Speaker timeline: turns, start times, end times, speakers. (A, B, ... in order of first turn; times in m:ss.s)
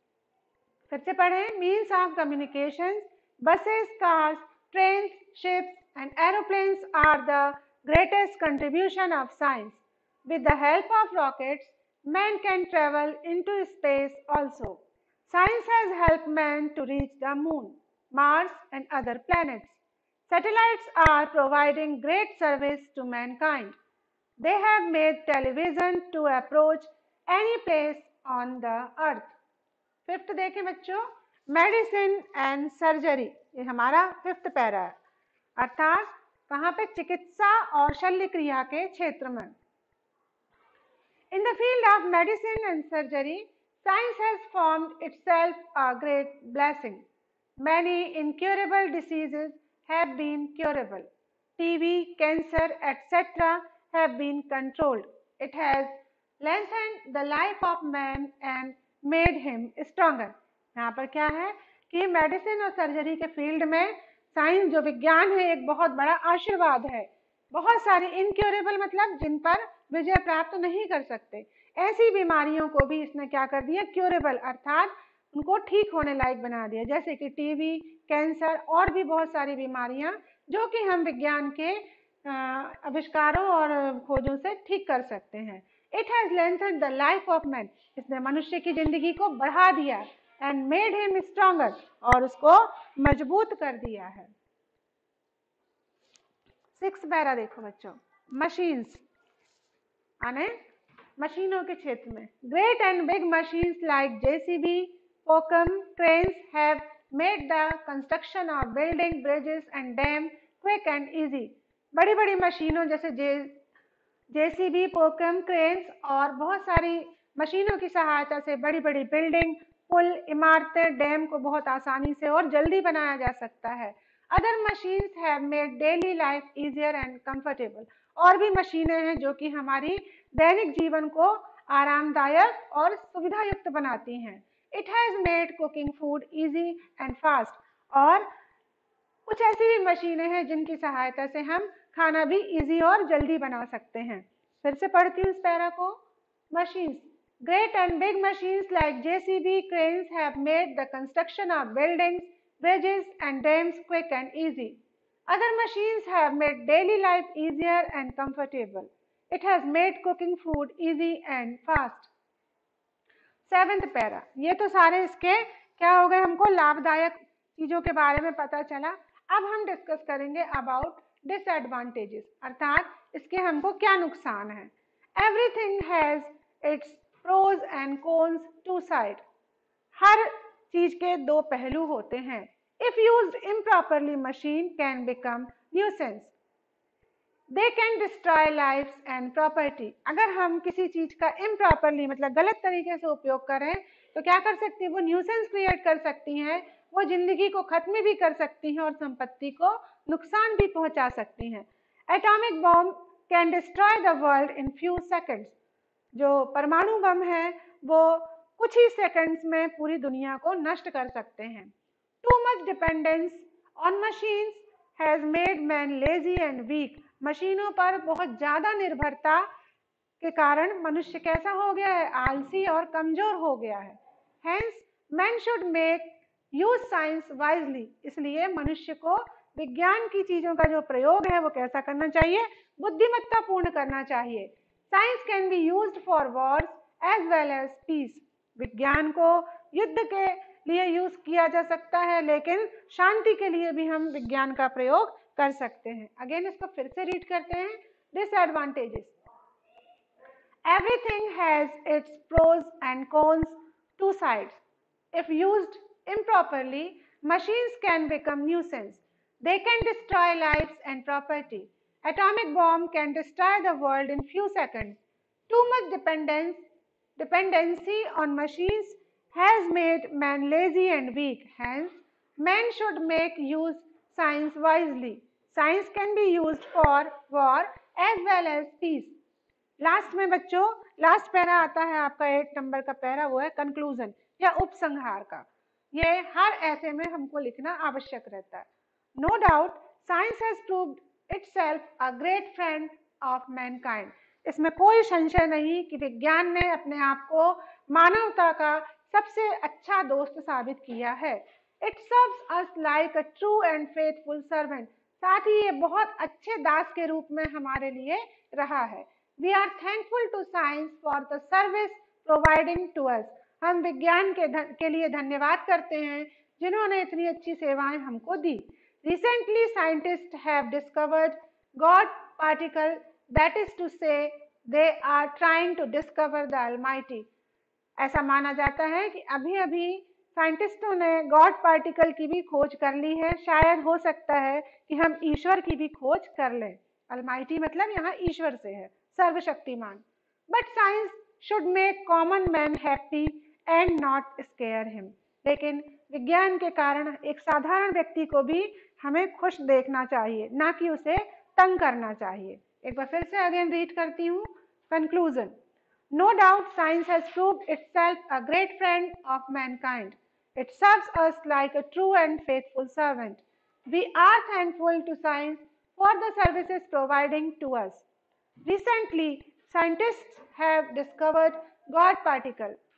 0:00.9-0:23.7 A
0:24.4-0:29.4 A
0:30.0-0:35.0 A
0:35.6-0:39.5 A
0:41.3-0:47.0 A
0:47.6-1:34.3 A
1:36.8-1:39.0 A
1:40.2-1:40.6 A
1:41.2-1:53.6 A
1:54.3-2:18.3 A
2:19.3-2:26.0 A
2:26.5-2:34.8 A
2:35.3-2:42.1 A
2:43.5-2:59.2 A
3:00.0-3:06.3 A
3:07.5-3:25.5 A
3:26.1-3:31.7 A
3:32.2-3:39.4 A
3:40.2-4:09.1 A
4:10.7-4:14.6 A
4:15.1-4:25.0 A
4:25.5-4:26.6 A
4:27.2-4:39.1 A
4:39.8-5:27.3 A
5:28.0-5:55.5 A
5:56.1-6:08.0 A
6:08.6-6:12.8 A